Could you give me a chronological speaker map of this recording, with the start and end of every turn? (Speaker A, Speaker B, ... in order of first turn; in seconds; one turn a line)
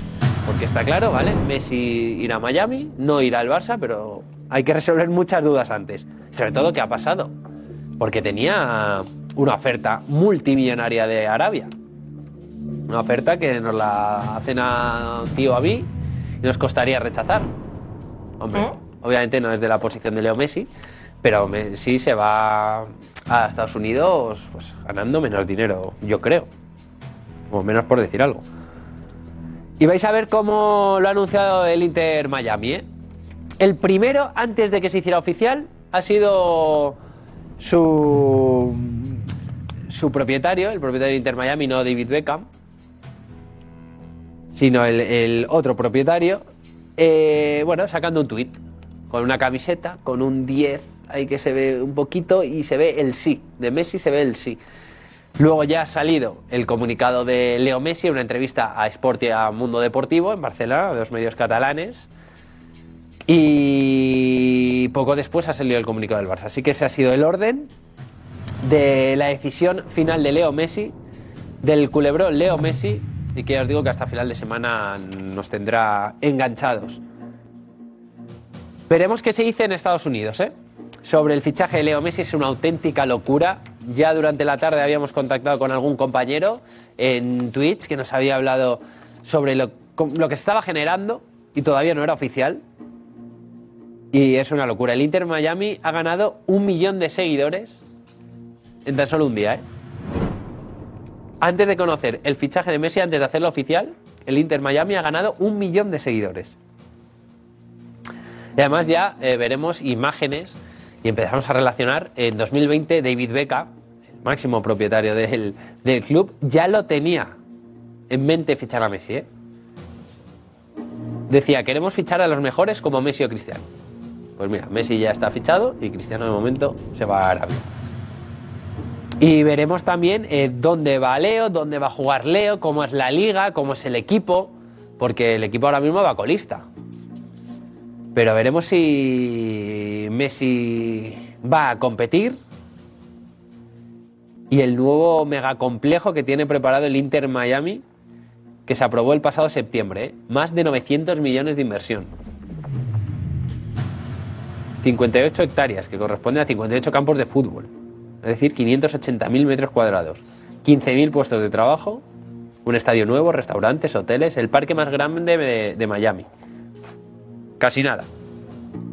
Speaker A: 0.5-7.3
Speaker A: 8.0-11.7
Speaker A: 12.9-15.9
Speaker A: 16.4-17.5
Speaker A: 18.4-20.7
Speaker A: 21.2-26.5
Speaker A: 27.5-28.4
Speaker A: 29.8-32.9
Speaker A: 33.6-37.0
Speaker A: 37.6-39.2
Speaker A: 39.9-42.5
Speaker A: 44.5-46.5
Speaker A: 47.0-48.6
Speaker A: 49.1-54.6
Speaker A: 55.4-62.1
Speaker A: 63.3-67.7
Speaker A: 68.6-71.0
Speaker A: 71.6-77.0
Speaker A: 78.9-80.5
Speaker A: 81.0-92.6
Speaker A: 94.1-97.8
Speaker A: 98.8-99.6
Speaker A: 101.4-106.6
Speaker A: 108.6-113.7
Speaker A: 114.2-117.4
Speaker A: 118.1-119.3
Speaker A: 121.3-123.7
Speaker A: 124.4-127.7
Speaker A: 129.2-136.7
Speaker A: 138.1-142.4
Speaker A: 144.5-147.8
Speaker A: 148.7-152.1
Speaker A: 154.8-157.7
Speaker A: 158.2-162.0
Speaker A: 162.7-166.3
Speaker A: 167.6-168.1